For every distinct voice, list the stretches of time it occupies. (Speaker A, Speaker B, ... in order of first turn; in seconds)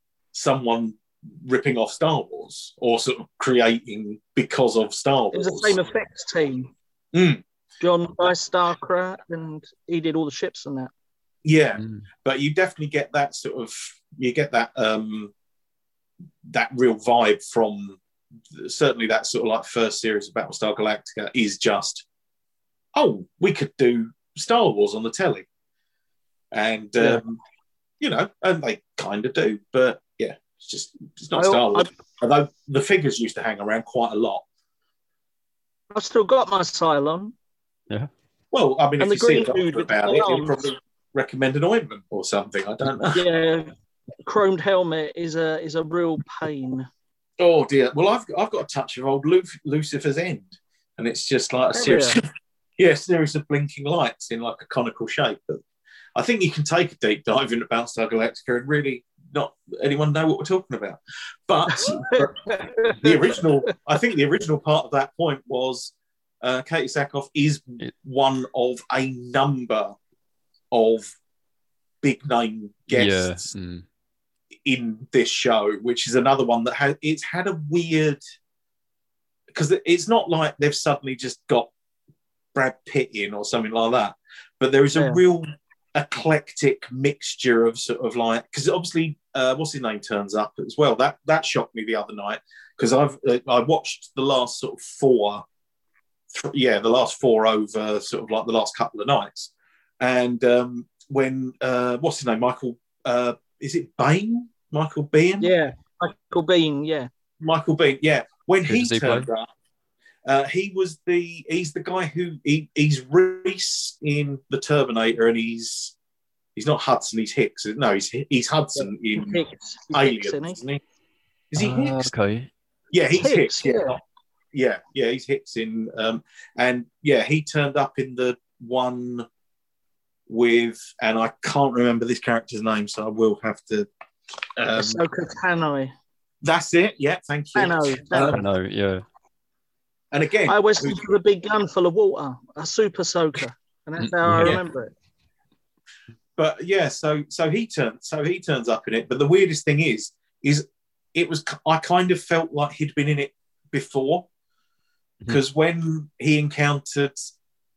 Speaker A: 0.3-5.8, 7.1-7.4, 11.4-15.3, 16.4-18.0, 18.5-22.1, 22.9-25.5, 26.5-27.4, 28.0-34.4, 38.5-43.2, 47.4-52.3, 52.8-55.6, 56.2-70.0, 70.7-71.1, 72.0-73.5, 74.7-78.2, 79.5-81.7, 82.5-95.5, 96.3-105.5, 107.4-109.5, 110.2-115.9, 116.5-119.4, 119.9-120.8, 121.5-122.1, 122.9-124.0, 124.5-129.3, 130.3-133.9, 134.6-135.1, 136.4-138.4, 140.1-141.0, 146.4-154.3, 155.3-157.3
Speaker B: 5.3-6.7, 7.8-10.9, 31.4-31.9, 35.9-37.3, 39.0-40.6, 43.1-43.7, 44.2-46.9, 51.7-52.2, 61.7-63.4, 105.4-107.1, 118.8-120.6, 123.2-124.0, 134.8-135.9, 137.6-138.4, 140.5-144.9
Speaker C: 11.8-12.1, 72.9-73.8, 108.7-109.3, 121.6-122.5, 138.3-139.0, 144.0-144.6